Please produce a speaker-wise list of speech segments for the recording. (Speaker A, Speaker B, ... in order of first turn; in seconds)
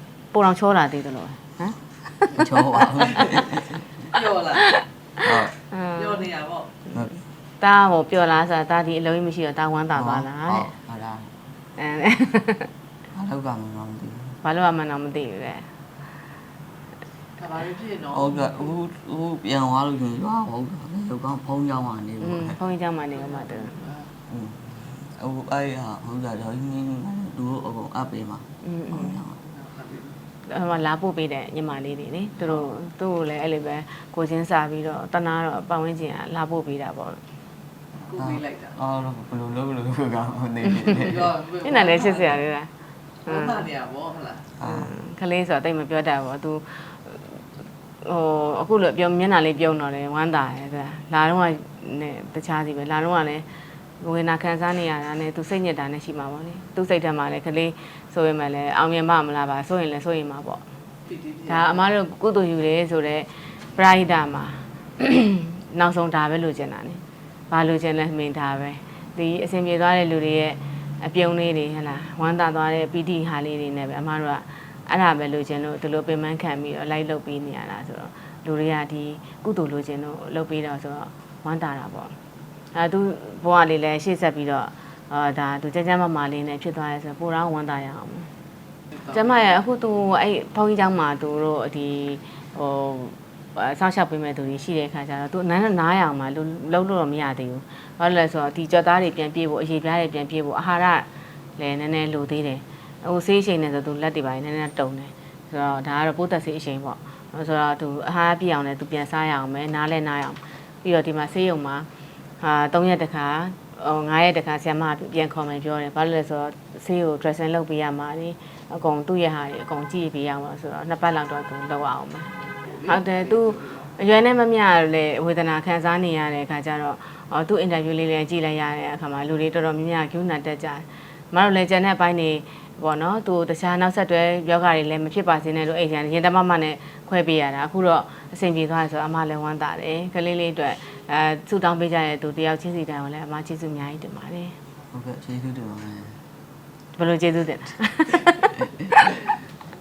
Speaker A: 0.3-2.4, 4.4-6.2, 7.6-10.7, 11.8-12.7, 14.4-15.7, 22.2-23.9, 28.6-29.2, 30.4-37.2, 40.7-42.7, 43.2-43.7, 44.6-47.2, 48.0-53.5, 54.0-60.6, 61.4-82.1, 82.7-88.3, 89.1-111.9, 112.4-144.5, 146.9-149.2
Speaker B: 2.2-3.9, 5.2-5.5, 9.9-11.3, 13.1-14.4, 18.1-22.6, 24.3-29.4, 38.1-41.4, 44.6-44.9, 144.9-146.2, 148.6-148.9
Speaker C: 4.1-4.6, 6.0-6.7, 17.4-18.3, 29.5-30.1, 38.0-38.8, 41.1-42.3, 43.3-44.5, 61.1-61.6, 122.7-123.9